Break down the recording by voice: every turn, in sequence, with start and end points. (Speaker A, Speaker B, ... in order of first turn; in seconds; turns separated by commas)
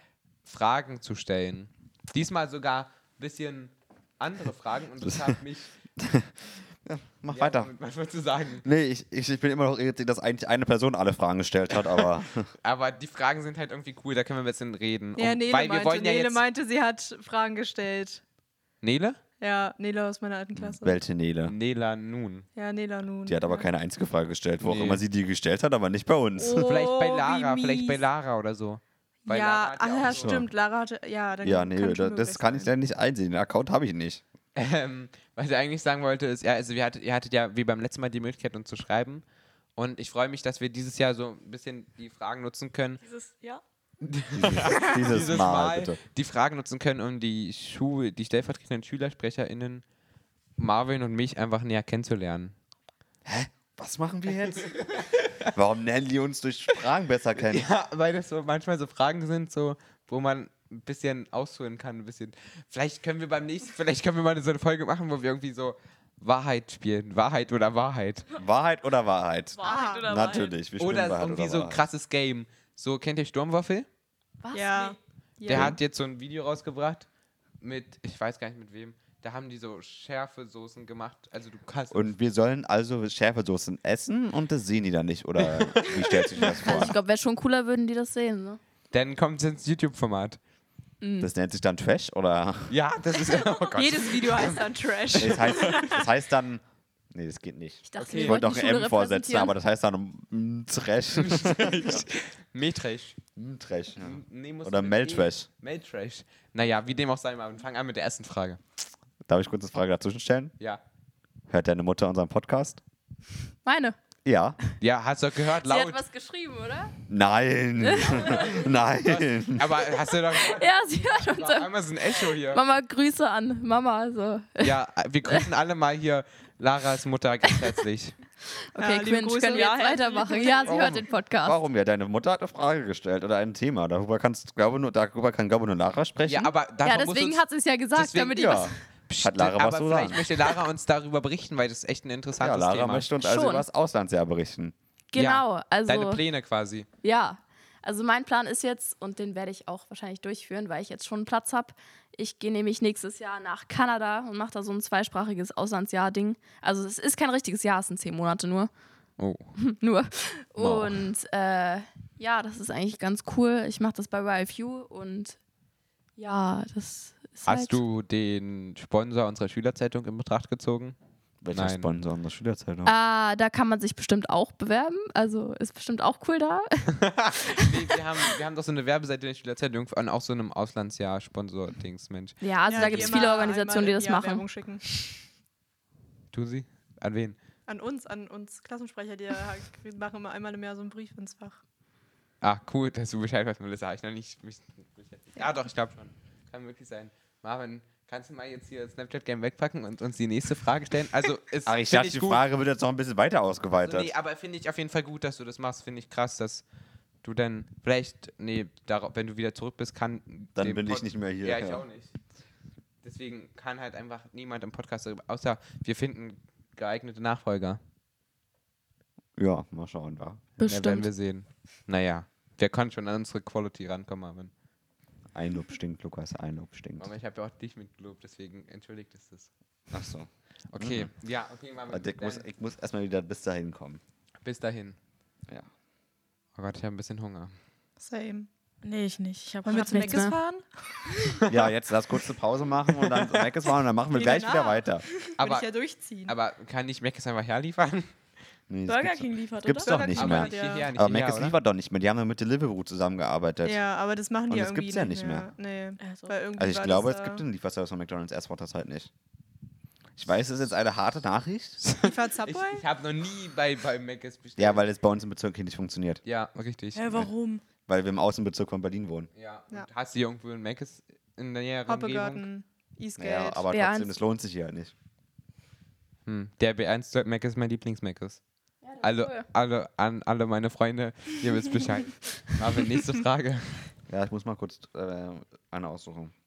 Speaker A: 0.4-5.7, Speaker B: 5.0-5.4, Speaker B: 6.0-7.7, Speaker A: 7.3-8.6, Speaker B: 8.6-12.5, Speaker A: 12.6-16.4, Speaker C: 15.2-18.2, Speaker A: 18.8-19.2, Speaker C: 19.4-21.0, Speaker B: 20.6-21.5, Speaker A: 21.4-22.4, Speaker C: 22.6-23.7, Speaker B: 23.2-26.7, Speaker A: 24.6-25.0, Speaker C: 26.4-27.9, Speaker A: 26.5-30.4, Speaker C: 29.2-32.7, Speaker B: 30.1-30.5, Speaker B: 31.4-34.2, Speaker A: 34.5-39.2, Speaker A: 39.8-43.0, Speaker D: 43.0-43.6, Speaker A: 44.0-49.8, Speaker B: 44.3-46.0, Speaker A: 50.6-52.5, Speaker B: 53.2-54.8, Speaker A: 54.5-55.5, Speaker B: 55.5-57.7, Speaker A: 57.4-68.3, Speaker B: 68.3-71.8, Speaker D: 69.6-70.5, Speaker C: 69.6-70.3, Speaker A: 70.8-73.9, Speaker E: 74.4-74.9, Speaker C: 74.5-75.7, Speaker A: 75.4-77.1, Speaker B: 75.5-75.8, Speaker A: 77.6-82.1, Speaker B: 81.9-87.0, Speaker A: 85.4-86.9, Speaker E: 86.4-88.6, Speaker A: 88.9-90.4, Speaker E: 91.0-91.3, Speaker B: 91.2-92.7, Speaker A: 92.7-96.0, Speaker C: 93.7-96.0, Speaker B: 95.2-102.0, Speaker E: 97.9-99.5, Speaker A: 98.0-98.4, Speaker A: 101.2-103.2, Speaker B: 103.3-105.5, Speaker A: 104.0-108.6, Speaker B: 109.2-110.5, Speaker B: 111.5-112.8, Speaker E: 113.6-114.0, Speaker B: 114.2-114.6, Speaker A: 114.8-116.0, Speaker E: 115.6-116.9, Speaker B: 117.1-119.7, Speaker E: 117.8-118.5, Speaker A: 117.9-122.6, Speaker E: 120.3-124.8, Speaker A: 124.6-128.2, Speaker C: 128.8-130.4, Speaker E: 128.8-131.6, Speaker D: 129.5-130.9, Speaker B: 130.7-136.5, Speaker A: 136.2-143.1, Speaker E: 136.8-138.7, Speaker B: 138.3-140.3, Speaker B: 142.4-144.7, Speaker E: 143.2-143.6, Speaker E: 145.1-146.2, Speaker A: 145.1-146.9, Speaker E: 147.0-158.7, Speaker A: 159.2-159.5, Speaker E: 159.6-165.4, Speaker B: 160.6-160.9, Speaker A: 160.6-160.9, Speaker E: 166.2-167.8, Speaker A: 167.4-170.9, Speaker B: 171.4-172.9, Speaker A: 171.5-171.9, Speaker E: 172.8-177.8, Speaker A: 177.0-183.4, Speaker E: 182.4-184.4, Speaker C: 182.7-184.8, Speaker A: 186.3-187.4, Speaker C: 187.7-191.6, Speaker A: 192.4-202.4, Speaker B: 201.7-204.1, Speaker A: 203.8-206.6, Speaker A: 207.2-212.1, Speaker B: 210.6-211.8, Speaker A: 213.0-217.8, Speaker B: 219.4-220.5, Speaker E: 220.6-221.1, Speaker A: 220.6-224.5, Speaker B: 225.3-227.1, Speaker A: 227.0-229.5, Speaker B: 229.9-231.1, Speaker A: 230.7-232.5, Speaker B: 231.9-234.0, Speaker A: 234.4-235.0, Speaker A: 236.6-237.5, Speaker C: 238.0-238.5, Speaker D: 238.8-240.2, Speaker C: 239.6-240.6, Speaker E: 239.8-240.3, Speaker A: 241.4-241.7, Speaker B: 241.5-245.0, Speaker A: 243.0-243.4, Speaker C: 244.1-244.8, Speaker D: 244.2-244.8, Speaker C: 245.3-246.3, Speaker A: 245.4-245.7, Speaker A: 246.2-248.2, Speaker B: 248.7-253.8, Speaker D: 248.8-250.2, Speaker C: 249.8-250.9, Speaker A: 250.2-251.6, Speaker C: 253.6-257.4, Speaker B: 254.5-255.5, Speaker D: 256.0-256.3, Speaker B: 256.6-259.1, Speaker B: 260.1-261.8, Speaker C: 261.9-262.8, Speaker A: 262.0-264.8, Speaker B: 264.6-266.2, Speaker A: 266.2-267.3, Speaker D: 266.9-267.6, Speaker B: 267.9-269.3, Speaker A: 269.3-272.5, Speaker C: 271.9-273.6, Speaker B: 273.2-274.9, Speaker E: 273.7-274.1, Speaker A: 276.2-278.4, Speaker E: 278.8-279.4, Speaker A: 279.0-283.9, Speaker B: 284.1-286.3